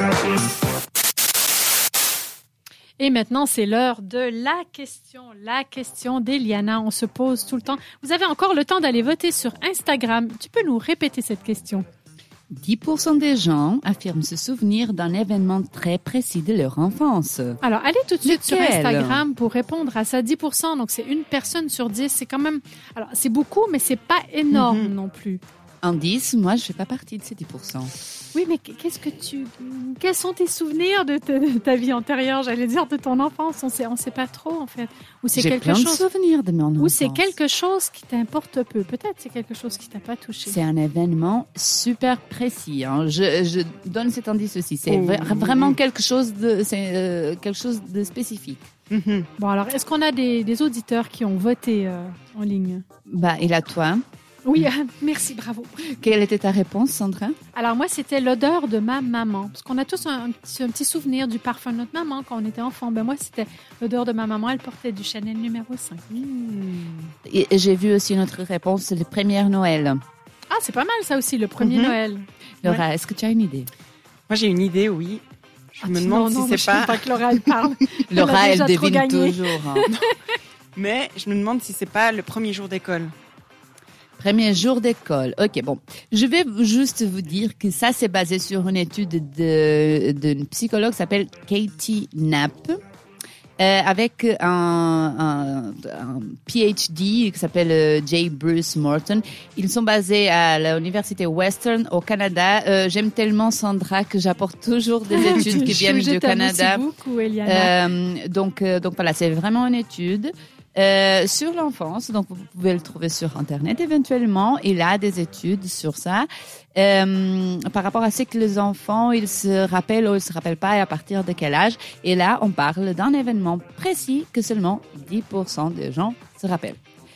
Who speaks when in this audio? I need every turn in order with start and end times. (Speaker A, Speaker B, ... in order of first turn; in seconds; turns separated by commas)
Speaker A: 3.0-11.8, Speaker B: 12.5-17.6, Speaker A: 17.6-25.4, Speaker B: 18.2-19.2, Speaker C: 24.5-24.9, Speaker B: 25.8-27.9, Speaker A: 28.3-36.0, Speaker B: 35.3-37.3, Speaker A: 36.8-40.6, Speaker B: 40.5-48.7, Speaker C: 44.9-45.8, Speaker C: 48.9-49.3, Speaker A: 49.4-52.8, Speaker B: 53.1-54.0, Speaker A: 54.4-56.0, Speaker B: 55.9-57.4, Speaker A: 57.5-66.0, Speaker C: 66.1-67.1, Speaker B: 67.2-70.0, Speaker A: 70.5-72.3, Speaker C: 71.6-72.0, Speaker B: 72.6-73.7, Speaker C: 74.3-77.6, Speaker A: 75.8-80.1, Speaker B: 78.1-79.9, Speaker C: 80.7-83.1, Speaker B: 84.2-92.8, Speaker B: 93.6-106.8, Speaker A: 105.1-107.7, Speaker B: 107.4-126.8